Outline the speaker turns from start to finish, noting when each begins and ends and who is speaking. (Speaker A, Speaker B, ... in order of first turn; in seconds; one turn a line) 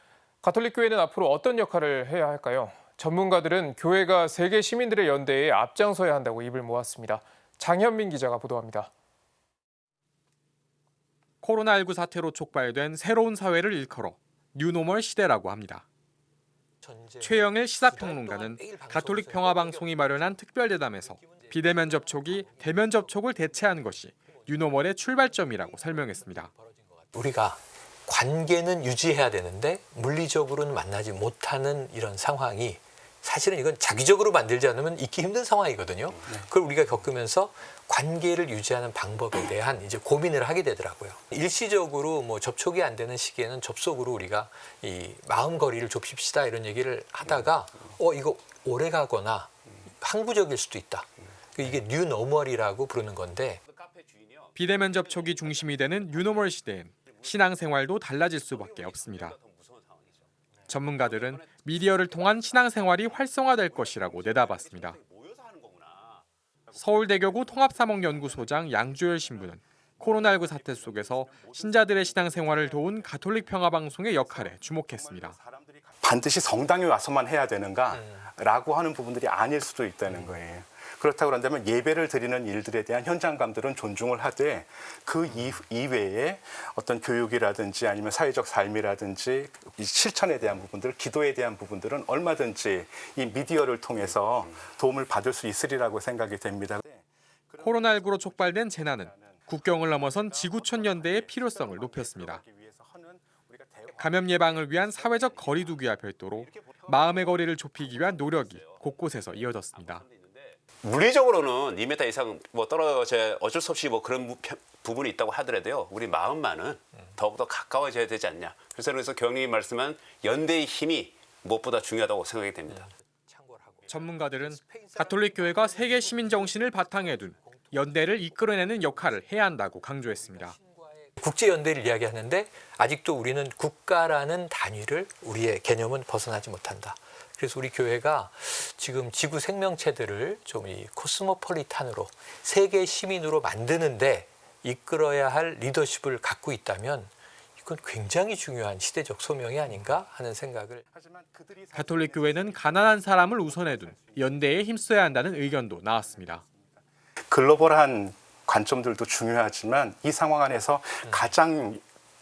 Speaker A: 0.4-8.9
Speaker B: 11.4-15.8
Speaker C: 16.8-20.4
Speaker B: 17.2-26.5
Speaker C: 20.9-53.6
Speaker D: 53.7-57.4
Speaker B: 54.5-59.4
Speaker D: 58.4-60.3
Speaker B: 60.7-65.0
Speaker D: 61.0-66.2
Speaker E: 66.7-73.5
Speaker B: 66.8-75.4
Speaker E: 74.1-105.7
Speaker C: 77.9-78.3
Speaker B: 97.6-102.4
Speaker B: 104.0-110.0
Speaker D: 106.4-122.9
Speaker C: 122.7-150.8
Speaker B: 123.9-130.5
Speaker E: 150.9-161.8
Speaker B: 151.7-156.4